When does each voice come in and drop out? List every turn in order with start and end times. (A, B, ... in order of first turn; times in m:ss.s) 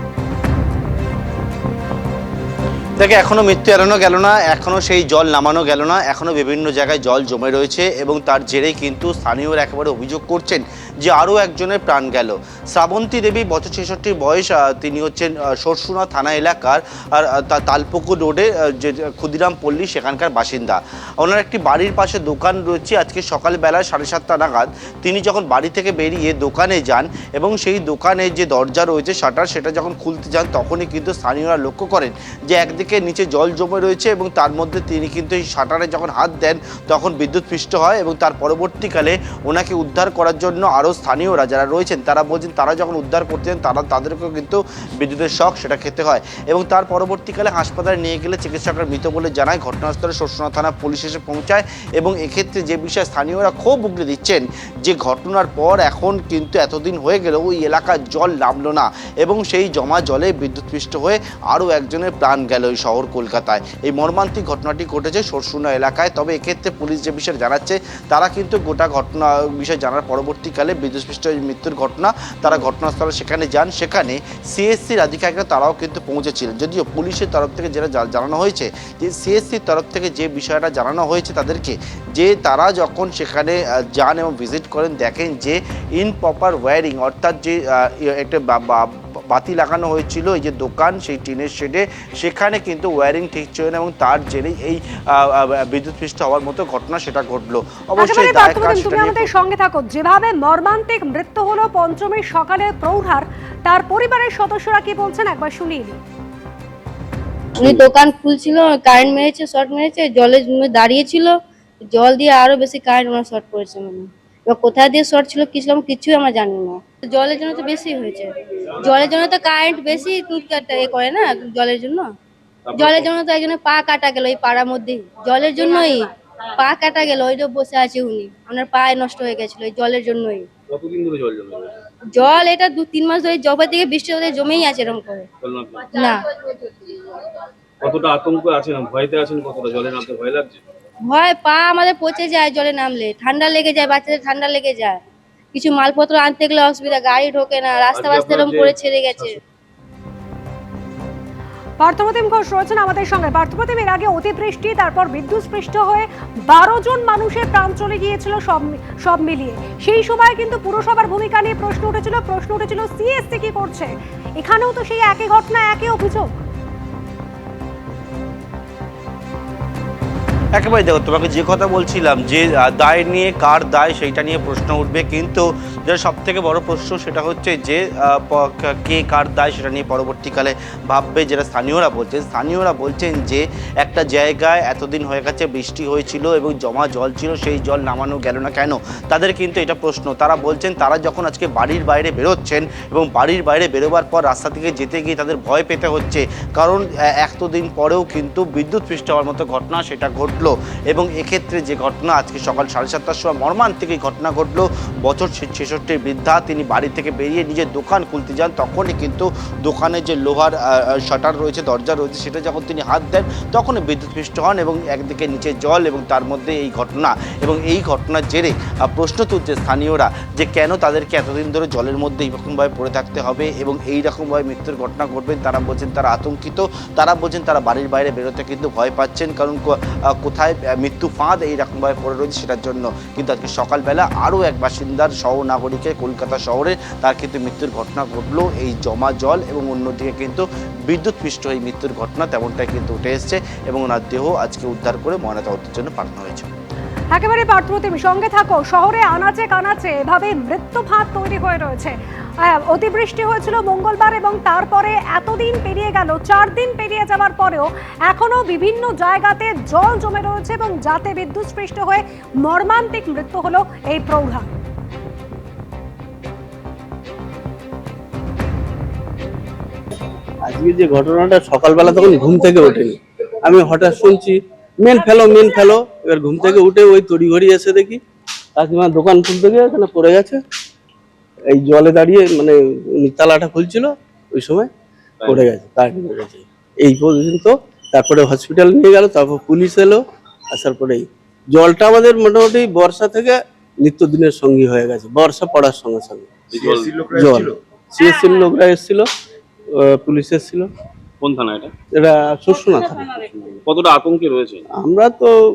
0:03.0-1:39.3 A
1:38.0-1:46.0 B
1:47.6-2:02.1 C
2:02.7-2:03.1 D
2:02.8-2:10.5 C
2:10.7-2:11.7 D
2:12.1-2:15.3 C
2:15.4-2:15.9 D
2:15.9-2:16.2 C
2:17.8-2:20.6 D
2:21.0-2:25.0 C
2:25.5-2:29.4 C
2:27.9-2:29.4 D
2:31.8-2:46.3 B
2:50.6-4:06.5 A
4:07.1-4:24.5 B
4:30.4-4:38.0 E
4:38.6-4:40.4 E
4:41.5-4:44.7 E
4:45.2-4:45.5 D
4:45.3-4:56.4 E
4:56.5-4:57.3 D
4:57.1-4:59.1 E
4:59.8-5:00.7 E
5:01.2-5:01.7 D
5:02.0-5:03.3 E
5:03.4-5:04.6 D
5:04.8-5:05.3 E